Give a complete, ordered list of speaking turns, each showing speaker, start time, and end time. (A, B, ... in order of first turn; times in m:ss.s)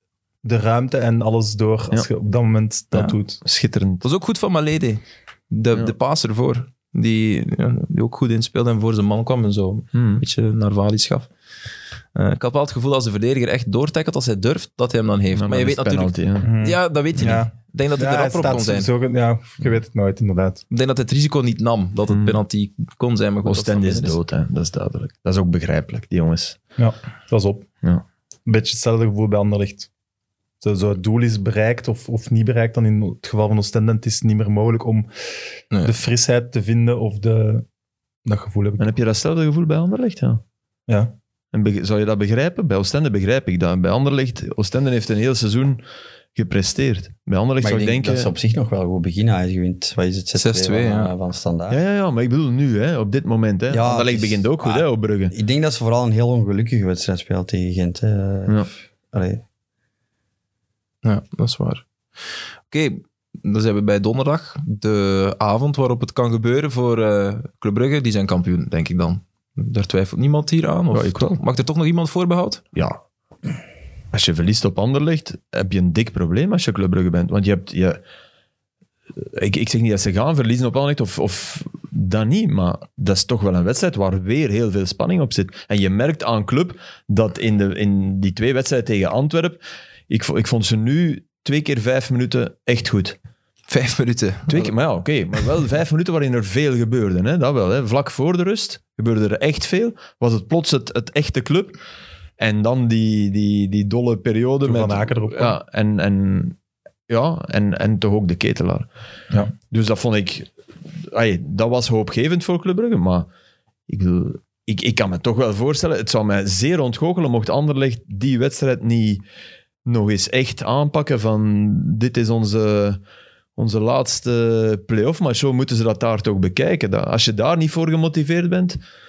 0:00.4-0:03.4 A
0:03.4-0:04.0 B
0:04.0-0:11.3 C
0:09.9-0:10.2 B
0:12.1-0:18.9 C
0:15.3-0:16.5 B
0:16.4-0:20.6 A
0:20.7-0:24.2 C
0:22.1-0:22.4 B
0:23.4-0:26.6 B
0:26.8-0:27.7 A
0:28.4-0:29.9 A
0:30.6-0:35.1 A
0:35.8-0:37.6 A
0:38.2-0:38.9 A
0:38.8-0:40.4 B
0:40.9-0:41.1 A
0:41.5-0:45.8 B
0:46.3-0:48.3 B
0:47.6-0:51.8 D
0:50.3-0:51.1 C
0:51.7-0:55.3 B
0:53.7-0:59.4 D
1:01.0-1:01.8 C
1:02.7-1:12.6 C
1:10.9-1:11.4 B
1:12.7-1:13.0 B
1:14.1-1:18.0 B
1:19.2-1:33.2 B
1:33.7-1:34.8 C
1:34.5-1:41.8 B
1:42.4-1:46.6 B
1:44.6-1:45.6 A
1:47.1-1:48.9 B
1:49.7-1:50.5 B
1:51.1-1:53.3 B
1:53.9-1:59.2 B
1:59.8-2:03.0 B
2:03.6-2:08.8 B